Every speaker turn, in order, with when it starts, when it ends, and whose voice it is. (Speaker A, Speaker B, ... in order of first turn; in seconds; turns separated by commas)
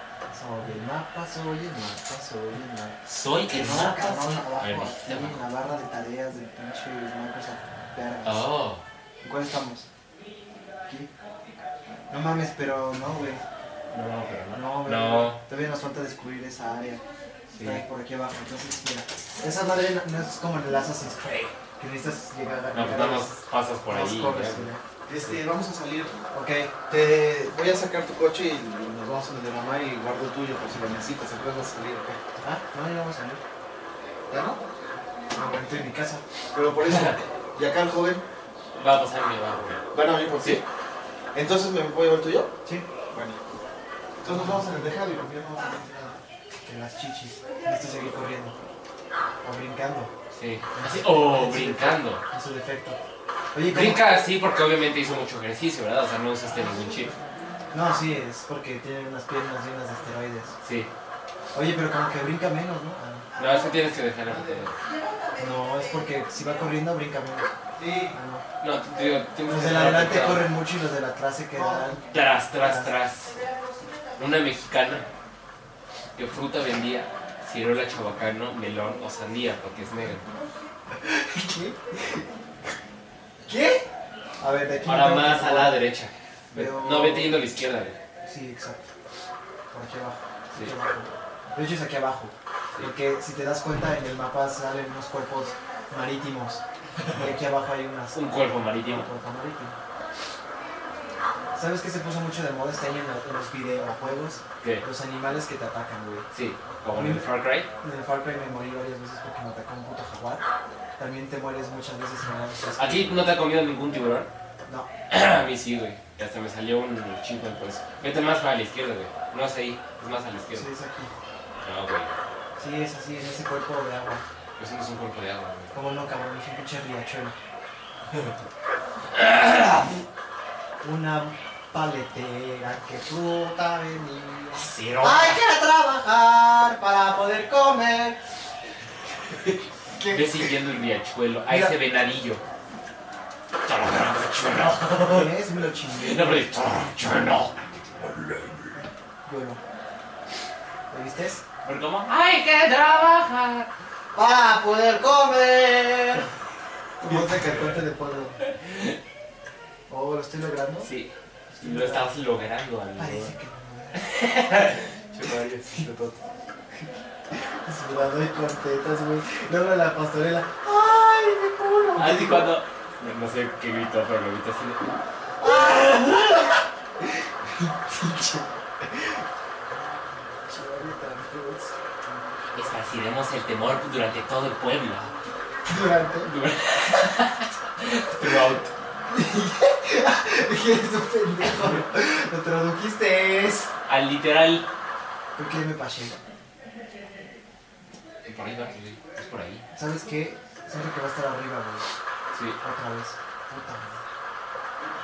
Speaker A: 0.3-8.5, Speaker B: 3.0-5.4, Speaker B: 8.2-8.8, Speaker A: 9.2-9.9, Speaker A: 12.1-13.4, Speaker B: 13.9-15.4, Speaker A: 14.5-17.0, Speaker B: 17.5-17.8, Speaker A: 17.6-23.3, Speaker B: 22.7-25.4, Speaker A: 23.9-24.8, Speaker C: 25.1-26.1, Speaker A: 26.3-26.9, Speaker C: 26.9-32.2, Speaker A: 32.4-33.4, Speaker C: 34.3-34.6, Speaker A: 35.3-36.2, Speaker C: 36.5-38.2, Speaker B: 36.8-37.2, Speaker B: 38.8-40.6, Speaker C: 39.9-40.6, Speaker C: 41.3-42.5, Speaker A: 42.6-42.9, Speaker A: 44.2-45.0, Speaker C: 44.2-46.2, Speaker A: 46.6-48.5, Speaker A: 49.4-50.1, Speaker B: 50.3-52.2, Speaker A: 50.7-53.0, Speaker A: 53.5-54.0, Speaker B: 53.6-57.2, Speaker A: 57.7-60.5, Speaker B: 60.6-60.9, Speaker A: 61.5-63.3, Speaker B: 63.4-64.8, Speaker A: 65.4-68.5, Speaker B: 68.6-70.5, Speaker A: 69.5-72.0, Speaker B: 72.1-73.4, Speaker A: 72.6-72.9, Speaker B: 74.2-75.1, Speaker B: 76.1-80.3, Speaker A: 81.0-82.2, Speaker A: 83.4-83.8, Speaker A: 84.4-85.8, Speaker B: 84.8-88.0, Speaker A: 86.5-87.4, Speaker A: 88.2-88.8, Speaker A: 89.7-99.8, Speaker B: 98.1-99.1, Speaker A: 101.5-106.3, Speaker B: 106.3-107.7, Speaker A: 106.9-107.3, Speaker A: 107.8-110.4, Speaker A: 111.0-113.2, Speaker B: 112.8-114.3, Speaker B: 115.1-120.7, Speaker A: 120.5-121.1, Speaker B: 121.6-122.1, Speaker A: 122.6-124.2, Speaker B: 124.6-125.7, Speaker A: 125.7-127.4, Speaker B: 129.1-130.0, Speaker A: 130.8-138.2, Speaker B: 134.5-135.4, Speaker B: 139.3-142.4, Speaker A: 139.9-140.5, Speaker A: 141.5-141.8, Speaker B: 143.6-145.3, Speaker A: 145.0-146.3, Speaker B: 145.9-148.8, Speaker A: 148.7-149.6, Speaker A: 150.9-151.4, Speaker B: 151.6-153.7, Speaker A: 154.1-156.3, Speaker B: 157.0-157.8, Speaker A: 157.0-158.4, Speaker B: 158.5-158.9, Speaker A: 159.9-160.9, Speaker B: 160.8-163.3, Speaker A: 161.5-162.1, Speaker A: 162.9-164.0, Speaker B: 163.9-166.2, Speaker A: 166.8-172.5, Speaker B: 171.9-174.9, Speaker A: 175.4-179.2, Speaker B: 175.5-176.3, Speaker A: 180.4-181.8, Speaker B: 182.5-185.1, Speaker A: 185.6-186.3, Speaker B: 186.2-188.7, Speaker A: 189.1-193.7, Speaker B: 193.9-194.7, Speaker A: 195.3-196.2, Speaker B: 198.2-199.6, Speaker A: 199.7-201.8, Speaker B: 202.3-202.6, Speaker A: 202.6-204.0